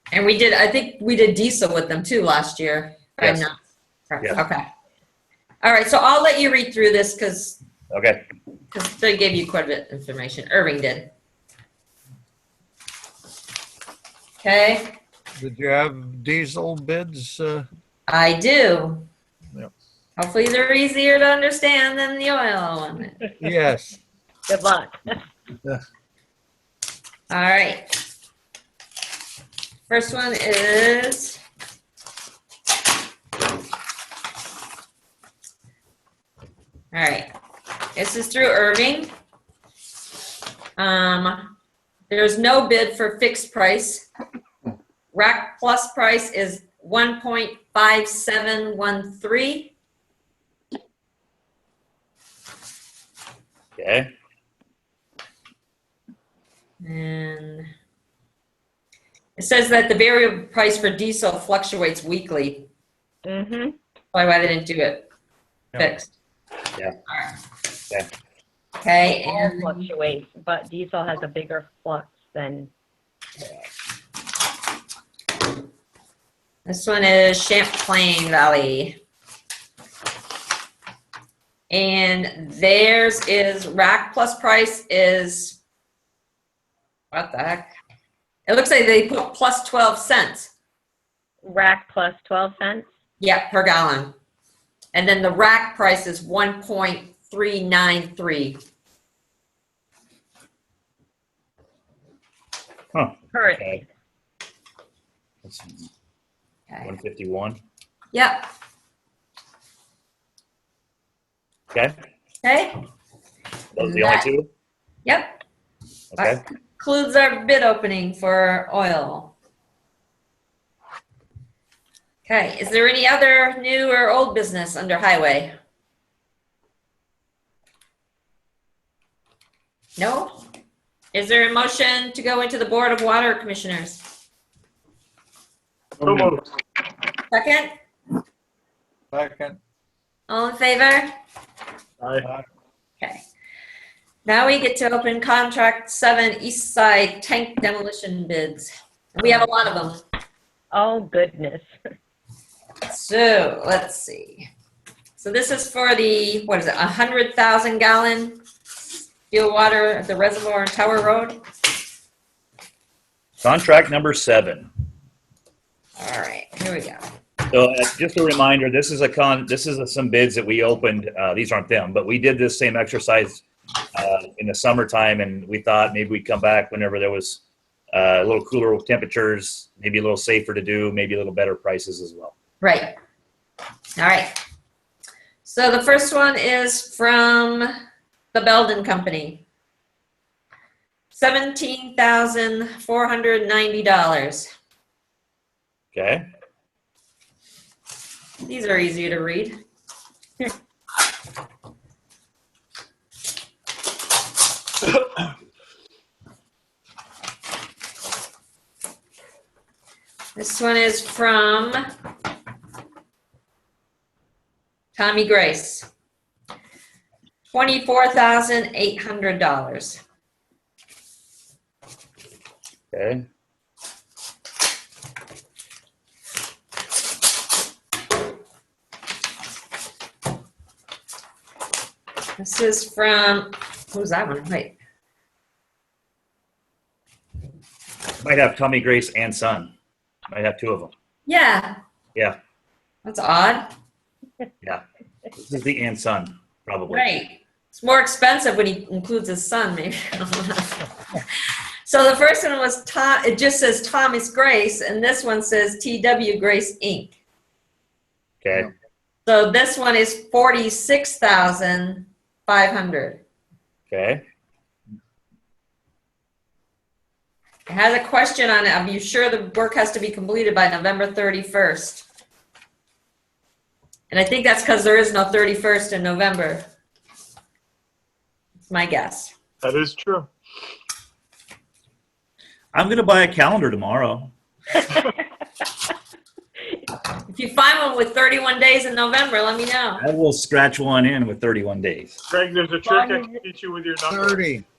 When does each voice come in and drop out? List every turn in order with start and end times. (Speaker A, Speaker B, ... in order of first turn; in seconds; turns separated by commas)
Speaker A: 0.1-3.5, Speaker A: 4.1-4.6, Speaker A: 5.6-7.6, Speaker B: 7.9-8.2, Speaker A: 8.7-11.1, Speaker A: 14.4-14.9, Speaker C: 15.4-17.7, Speaker A: 18.1-19.0, Speaker A: 20.2-23.2, Speaker C: 23.4-24.0, Speaker D: 24.5-25.1, Speaker A: 27.3-27.8, Speaker A: 29.9-31.4, Speaker A: 36.9-37.3, Speaker A: 37.9-39.1, Speaker A: 40.8-41.5, Speaker A: 42.1-44.1, Speaker A: 45.1-49.7, Speaker B: 53.8-54.1, Speaker A: 56.8-57.6, Speaker A: 59.4-62.6, Speaker D: 63.2-63.7, Speaker A: 64.1-65.1, Speaker A: 65.8-66.1, Speaker A: 67.1-67.3, Speaker A: 68.8-69.8, Speaker D: 69.2-72.7, Speaker A: 76.7-79.0, Speaker A: 81.7-85.6, Speaker A: 87.1-87.7, Speaker A: 88.5-90.5, Speaker D: 91.4-92.8, Speaker A: 93.2-94.1, Speaker A: 94.9-98.6, Speaker B: 102.9-103.8, Speaker D: 103.3-103.8, Speaker B: 105.4-105.9, Speaker A: 106.7-106.9, Speaker B: 106.8-107.6, Speaker A: 108.1-108.5, Speaker A: 112.4-112.7, Speaker B: 113.7-114.5, Speaker A: 113.8-114.3, Speaker A: 115.0-115.4, Speaker B: 116.1-116.4, Speaker A: 116.2-119.3, Speaker A: 122.2-125.5, Speaker A: 130.0-130.4, Speaker A: 131.1-134.0, Speaker E: 136.0-136.4, Speaker A: 137.3-137.7, Speaker C: 139.1-139.6, Speaker A: 140.3-141.1, Speaker E: 142.0-142.2, Speaker A: 144.2-150.0, Speaker D: 150.7-151.7, Speaker A: 152.9-154.5, Speaker A: 155.2-158.4, Speaker A: 159.3-161.4, Speaker B: 163.4-164.7, Speaker A: 166.0-167.0, Speaker B: 167.5-173.4, Speaker B: 173.9-182.3, Speaker A: 182.6-182.9, Speaker A: 184.0-184.3, Speaker A: 185.4-187.7, Speaker A: 188.3-189.4, Speaker A: 191.1-194.5, Speaker B: 195.9-196.2, Speaker A: 198.4-199.6, Speaker A: 210.3-211.8, Speaker A: 214.9-215.9, Speaker A: 217.5-220.0, Speaker B: 222.9-223.2, Speaker A: 232.4-234.8, Speaker B: 238.2-239.7, Speaker B: 240.3-240.9, Speaker A: 241.2-241.8, Speaker A: 243.0-243.7, Speaker B: 244.6-247.1, Speaker A: 246.9-251.2, Speaker A: 251.8-257.1, Speaker B: 258.4-258.7, Speaker A: 259.2-263.2, Speaker B: 263.9-264.2, Speaker A: 267.7-272.1, Speaker A: 274.1-276.6, Speaker A: 278.6-279.3, Speaker E: 279.6-280.3, Speaker B: 282.7-284.3, Speaker A: 287.3-290.0, Speaker B: 290.0-292.2, Speaker E: 292.3-294.4, Speaker D: 292.8-293.3, Speaker C: 294.1-294.6